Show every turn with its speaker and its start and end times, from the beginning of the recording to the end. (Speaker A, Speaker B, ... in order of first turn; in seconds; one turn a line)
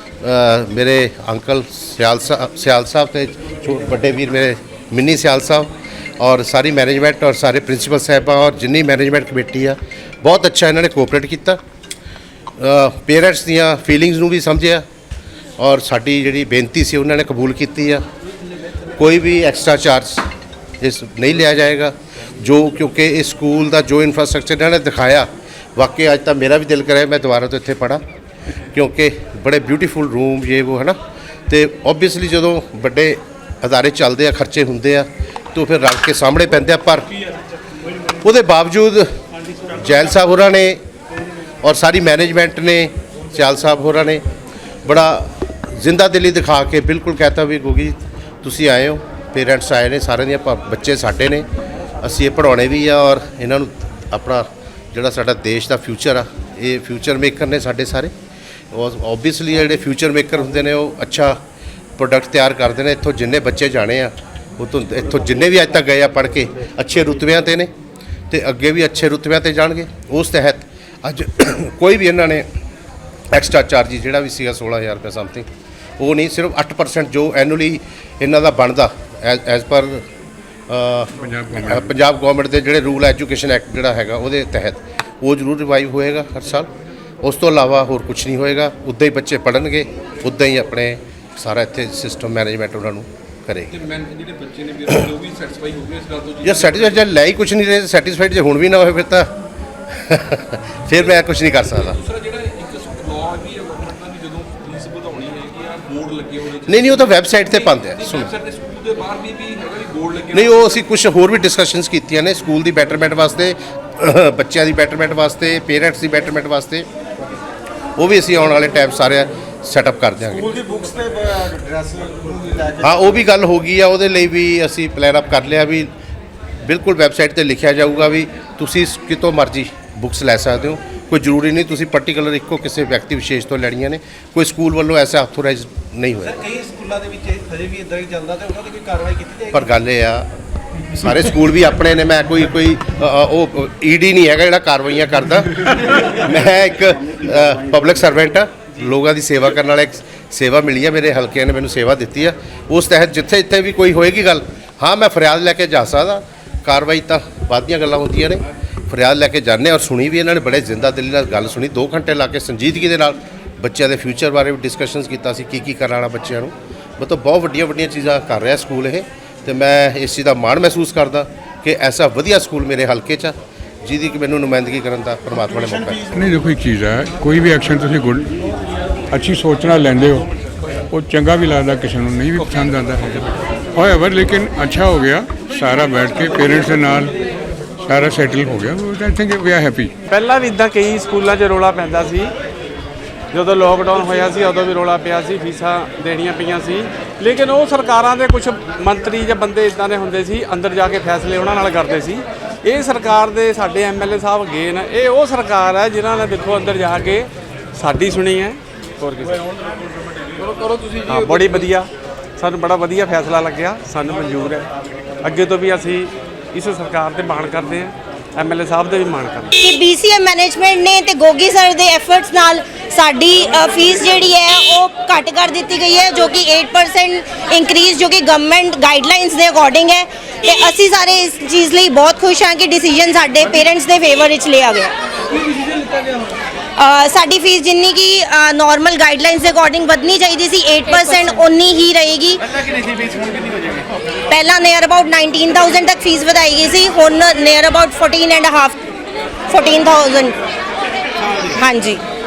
Speaker A: 0.2-11.6
Speaker A: 12.6-14.8
Speaker A: 15.6-18.0
Speaker A: 18.9-20.3
Speaker A: 20.8-28.0
Speaker A: 28.7-31.0
Speaker A: 31.5-37.1
Speaker A: 38.2-39.1
Speaker A: 39.7-40.8
Speaker A: 41.6-44.2
Speaker A: 44.8-51.5
Speaker A: 52.0-58.1
Speaker A: 58.7-61.4
Speaker A: 62.0-67.7
Speaker A: 68.3-72.5
Speaker A: 73.3-75.5
Speaker A: 76.0-80.0
Speaker A: 80.7-86.7
Speaker B: 81.2-81.9
Speaker A: 87.2-93.7
Speaker C: 93.7-97.0
Speaker A: 96.4-99.3
Speaker A: 99.9-102.0
Speaker C: 101.0-110.8
Speaker A: 106.7-108.3
Speaker A: 110.3-116.9
Speaker A: 118.0-120.8
Speaker D: 120.9-122.2
Speaker A: 122.7-125.9
Speaker A: 126.6-136.5
Speaker D: 136.5-139.4
Speaker A: 139.3-140.3
Speaker A: 140.9-176.1
Speaker B: 176.1-178.4
Speaker B: 179.1-180.3
Speaker B: 180.9-187.2
Speaker B: 187.8-189.9
Speaker E: 190.1-192.3
Speaker E: 193.3-209.5
Speaker C: 210.3-211.6
Speaker E: 211.1-214.7
Speaker E: 215.2-219.5
Speaker F: 219.6-234.9
Speaker F: 236.8-242.5
Speaker F: 244.3-248.8
Speaker F: 249.5-250.4
Speaker F: 251.5-252.0